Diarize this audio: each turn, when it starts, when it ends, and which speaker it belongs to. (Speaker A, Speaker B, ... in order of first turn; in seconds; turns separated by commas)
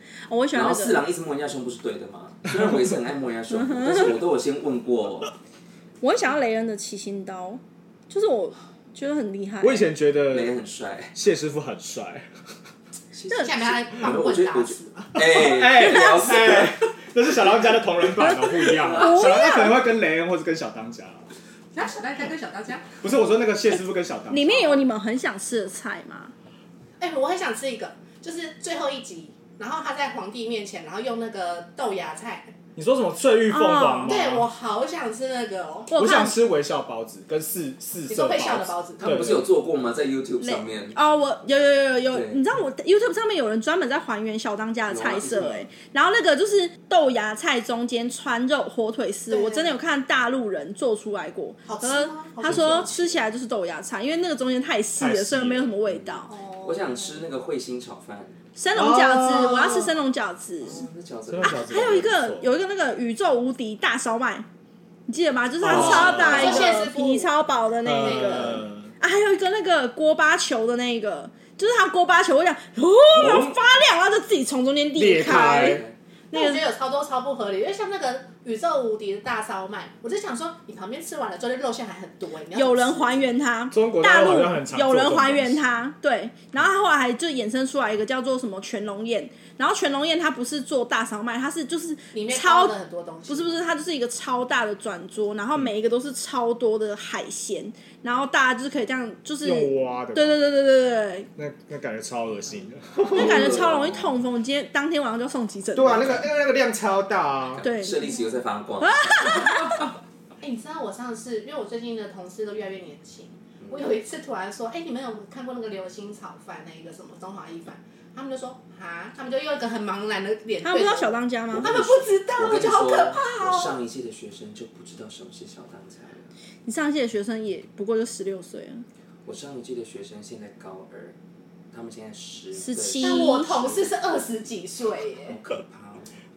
Speaker A: 0.3-1.0, Speaker B: 0.5-5.3, Speaker A: 3.5-4.2, Speaker A: 6.0-9.9, Speaker C: 9.6-10.5, Speaker B: 10.3-11.1, Speaker C: 11.1-12.3, Speaker B: 13.1-16.9, Speaker D: 13.3-15.3, Speaker C: 15.2-21.3, Speaker A: 18.2-19.9, Speaker B: 18.8-19.1, Speaker D: 21.7-23.1, Speaker C: 23.0-24.8, Speaker A: 24.3-26.3, Speaker D: 27.0-32.5, Speaker C: 32.8-34.5, Speaker A: 33.5-34.2, Speaker D: 34.0-36.2, Speaker A: 35.9-36.3, Speaker C: 36.0-39.4, Speaker D: 38.1-39.2, Speaker B: 39.0-41.0, Speaker A: 40.4-56.3, Speaker B: 42.1-42.4, Speaker B: 44.9-45.7, Speaker D: 49.3-49.8, Speaker D: 51.6-53.2, Speaker C: 52.4-52.9, Speaker C: 55.0-55.8, Speaker B: 55.9-58.4, Speaker D: 56.3-57.2, Speaker A: 58.5-60.9, Speaker C: 58.7-59.8, Speaker D: 59.6-59.9, Speaker B: 60.6-62.0, Speaker C: 61.3-62.5, Speaker A: 61.4-64.5, Speaker A: 65.1-76.6, Speaker C: 65.6-66.8, Speaker B: 65.7-66.8, Speaker D: 65.7-67.3, Speaker C: 67.8-68.9, Speaker D: 68.0-68.6, Speaker B: 73.1-73.6, Speaker C: 75.0-75.8, Speaker B: 75.2-75.9, Speaker D: 76.3-83.3, Speaker A: 82.5-92.7, Speaker C: 83.7-85.7, Speaker D: 92.1-93.6, Speaker A: 93.3-101.3, Speaker C: 99.4-100.5, Speaker C: 101.4-103.7, Speaker B: 103.0-104.2, Speaker A: 103.1-106.2, Speaker C: 105.7-107.6, Speaker B: 105.9-106.2, Speaker B: 107.5-109.8, Speaker A: 107.6-108.2, Speaker D: 108.0-108.3, Speaker A: 108.8-109.8, Speaker D: 110.4-123.8, Speaker B: 113.6-113.9, Speaker A: 120.6-121.7, Speaker B: 121.5-126.3, Speaker A: 126.7-128.8, Speaker B: 129.2-131.2, Speaker B: 131.7-134.1, Speaker A: 132.5-133.6, Speaker D: 133.0-135.4, Speaker B: 135.2-136.1